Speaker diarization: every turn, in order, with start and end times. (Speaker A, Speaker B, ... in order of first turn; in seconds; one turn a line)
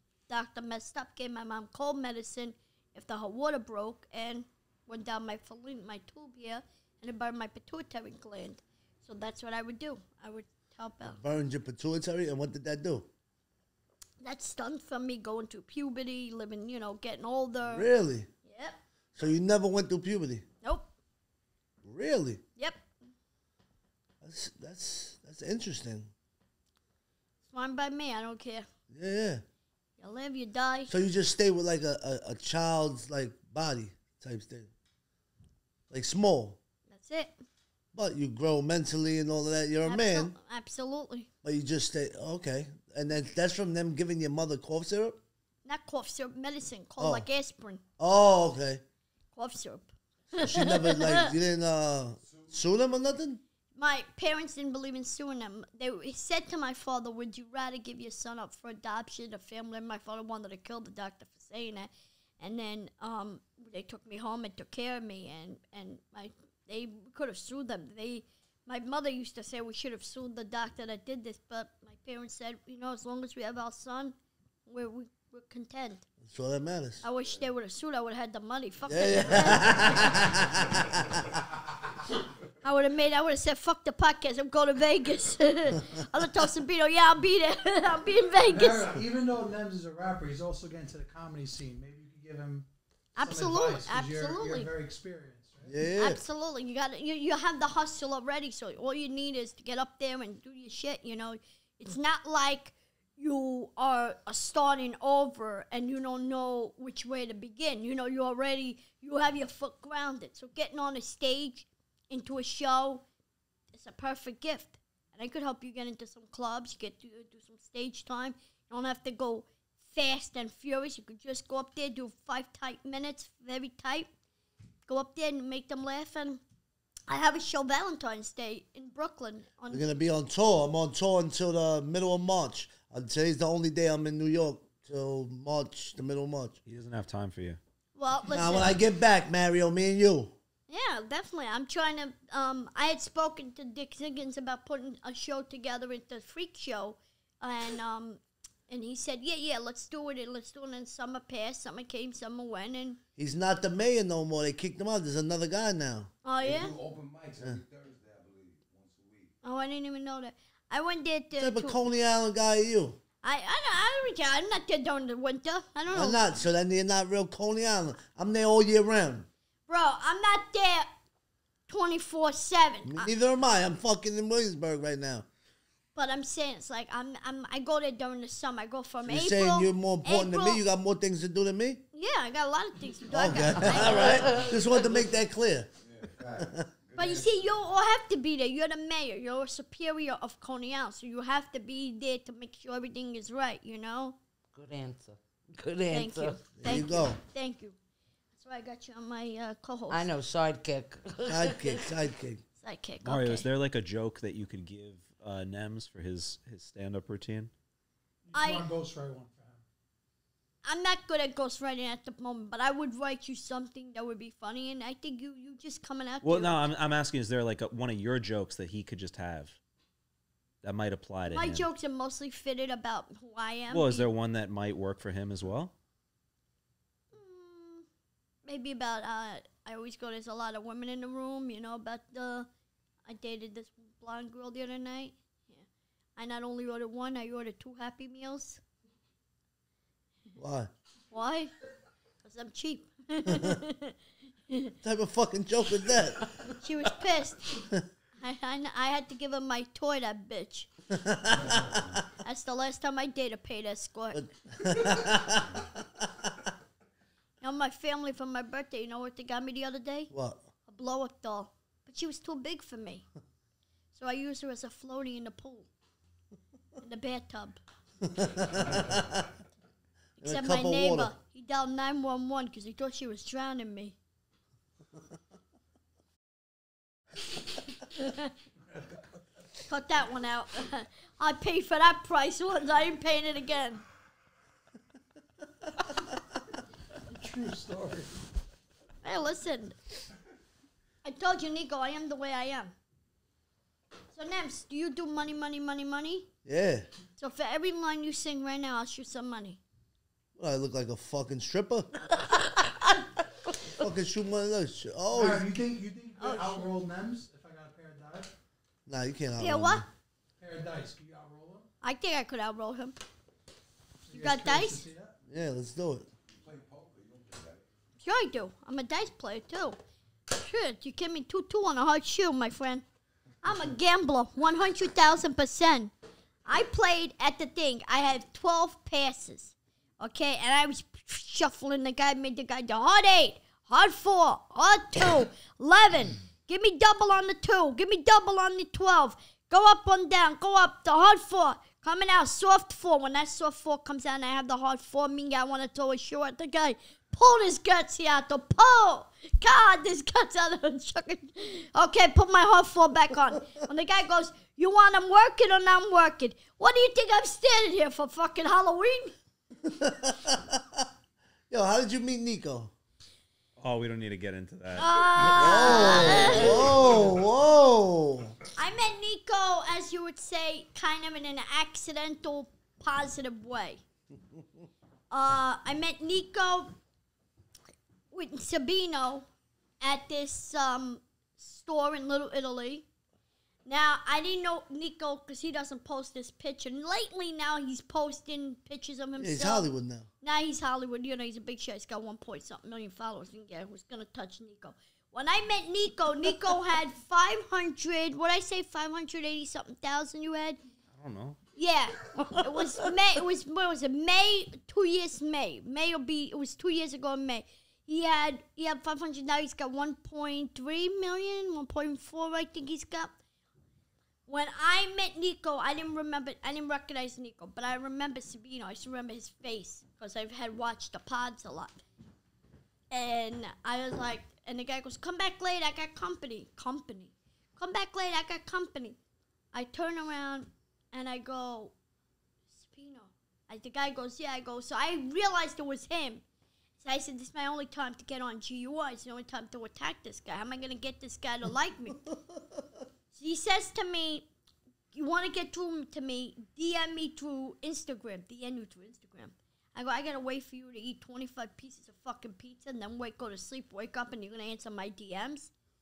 Speaker A: 0.3-11.2
Speaker B: 11.2-13.1
Speaker A: 14.2-17.9
Speaker B: 17.7-18.3
Speaker A: 18.4-18.8
Speaker B: 19.1-20.4
Speaker B: 21.8-22.4
Speaker A: 22.6-22.8
Speaker B: 24.2-26.1
Speaker A: 27.4-28.6
Speaker B: 28.9-29.4
Speaker A: 30.0-30.9
Speaker B: 30.9-34.7
Speaker B: 35.9-36.6
Speaker A: 36.9-37.4
Speaker B: 37.9-40.3
Speaker A: 39.8-41.3
Speaker B: 41.4-45.2
Speaker A: 45.6-47.8
Speaker B: 47.0-47.3
Speaker B: 48.0-48.8
Speaker A: 49.3-51.3
Speaker B: 50.4-53.4
Speaker C: 52.2-52.5
Speaker A: 53.8-74.1
Speaker A: 74.7-76.0
Speaker B: 76.2-77.0
Speaker A: 77.0-80.4
Speaker B: 78.8-81.2
Speaker C: 79.8-81.1
Speaker A: 82.6-89.0
Speaker D: 88.5-92.7
Speaker A: 93.2-94.7
Speaker D: 93.2-95.7
Speaker B: 95.7-96.2
Speaker A: 96.0-113.0
Speaker A: 113.7-124.1
Speaker A: 124.9-126.4
Speaker A: 127.1-129.9
Speaker B: 129.7-136.6
Speaker E: 136.7-137.6
Speaker A: 137.9-138.7
Speaker B: 138.3-140.3
Speaker A: 140.7-153.0
Speaker B: 153.2-156.1
Speaker A: 156.2-156.8
Speaker C: 156.4-159.3
Speaker A: 159.4-161.8
Speaker B: 161.4-163.0
Speaker A: 163.2-166.2
Speaker B: 165.9-169.3
Speaker A: 169.7-170.9
Speaker A: 171.7-173.1
Speaker B: 172.8-175.2
Speaker A: 175.9-180.6
Speaker B: 179.1-181.8
Speaker A: 181.9-184.5
Speaker B: 183.1-185.7
Speaker F: 183.7-184.5
Speaker C: 185.8-187.4
Speaker B: 186.4-186.7
Speaker A: 186.9-194.2
Speaker F: 194.5-196.4
Speaker A: 195.9-197.8
Speaker B: 196.6-197.2
Speaker A: 198.3-200.1
Speaker F: 199.9-201.8
Speaker B: 201.2-202.4
Speaker A: 202.6-203.5
Speaker E: 203.0-207.5
Speaker D: 208.3-209.6
Speaker A: 208.3-208.7
Speaker A: 210.6-216.7
Speaker E: 216.2-219.6
Speaker E: 220.6-221.7
Speaker A: 221.3-224.0
Speaker E: 223.7-225.7
Speaker A: 227.1-227.8
Speaker A: 228.4-232.5
Speaker A: 233.1-235.6
Speaker A: 236.2-238.6
Speaker B: 240.3-240.7
Speaker A: 241.1-241.5
Speaker A: 242.2-243.9
Speaker B: 243.3-243.6
Speaker A: 244.5-244.7
Speaker B: 244.8-246.2
Speaker A: 246.6-247.7
Speaker A: 248.2-250.7
Speaker B: 250.9-251.8
Speaker C: 251.3-252.0
Speaker A: 252.2-254.2
Speaker B: 254.1-256.1
Speaker A: 257.4-260.1
Speaker B: 260.1-260.4
Speaker A: 260.7-263.1
Speaker A: 263.9-265.7
Speaker A: 266.8-267.6
Speaker B: 268.0-269.3
Speaker A: 270.2-273.9
Speaker B: 270.2-271.1
Speaker A: 278.0-278.3
Speaker A: 279.7-283.8
Speaker D: 287.1-288.1
Speaker A: 289.0-289.8
Speaker A: 291.0-292.7
Speaker A: 294.1-296.3
Speaker B: 296.4-296.9
Speaker A: 297.2-299.6
Speaker B: 300.3-301.9
Speaker F: 302.1-303.1
Speaker B: 303.8-305.5
Speaker D: 305.1-308.3
Speaker A: 306.2-306.7
Speaker B: 308.9-309.8
Speaker A: 309.4-309.8
Speaker D: 310.4-311.7
Speaker A: 311.8-313.0
Speaker D: 314.1-315.1
Speaker A: 314.1-314.8
Speaker B: 315.3-316.1
Speaker C: 316.4-317.6
Speaker A: 318.0-319.8
Speaker A: 320.3-322.8
Speaker A: 323.4-325.9
Speaker A: 326.4-359.1
Speaker B: 359.6-360.9
Speaker B: 361.5-362.7
Speaker E: 363.6-366.2
Speaker A: 364.8-366.7
Speaker B: 365.3-368.3
Speaker A: 368.6-373.8
Speaker A: 375.1-376.7
Speaker A: 378.1-379.3
Speaker A: 379.8-382.9
Speaker A: 383.6-389.7
Speaker B: 389.2-390.1
Speaker A: 390.2-400.6
Speaker E: 400.9-401.4
Speaker A: 401.6-413.1
Speaker A: 414.3-421.8
Speaker A: 422.9-429.0
Speaker A: 429.5-431.7
Speaker A: 432.5-436.2
Speaker A: 436.8-442.1
Speaker A: 443.1-444.2
Speaker A: 444.9-455.5